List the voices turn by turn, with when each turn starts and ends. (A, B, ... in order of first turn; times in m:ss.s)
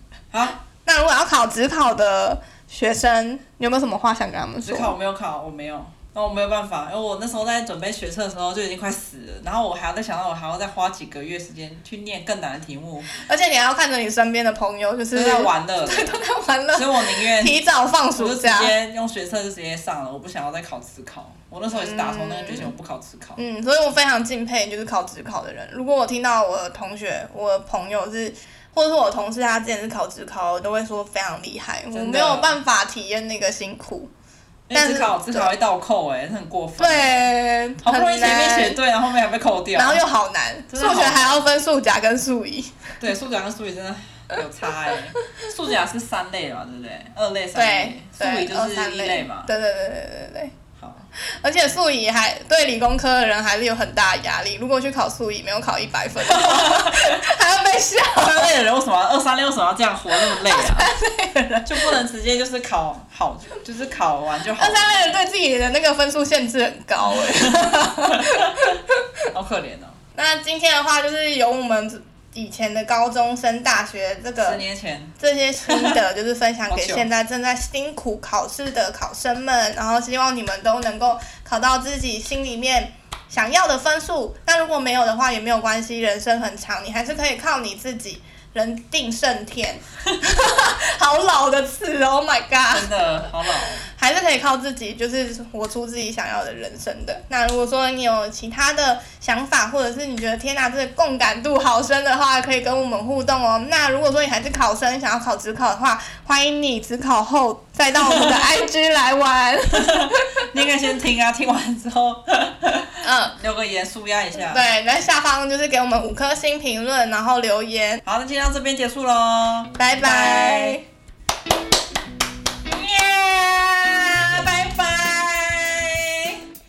0:00.3-0:00.6 A
0:00.8-0:04.9 B
0:04.6-0:13.1 A
0:13.1-0:18.7 B
0:15.1-0:17.6 A
0:18.1-0:23.4 A
0:21.7-0:22.7 B
0:23.4-0:34.1 B
0:31.9-0:32.6 A
0:34.7-0:40.0 A
0:34.7-0:35.5 B
0:36.8-0:38.8 B
0:39.7-0:42.9 B
0:40.7-0:41.4 A
0:43.0-0:49.5 A
0:47.5-0:50.5 B
0:50.8-0:51.1 A
0:51.2-0:58.6 B
0:56.2-0:57.2 A
0:58.1-1:00.9 A
1:00.1-1:02.0 B
1:01.6-1:04.9 A
1:04.6-1:09.0 B
1:07.1-1:08.8 A
1:09.3-1:10.0 A
1:10.1-1:14.6 B
1:14.4-1:15.1 A
1:15.2-1:50.4 B
1:15.7-1:16.0 A
1:16.7-1:17.1 A
1:32.7-1:33.9 A
1:47.9-1:48.5 A
1:49.8-1:54.7 A
1:53.0-1:53.4 B
1:54.3-1:58.0 B
1:58.0-2:00.8 A
1:59.8-2:00.8 B
2:02.6-2:06.4 A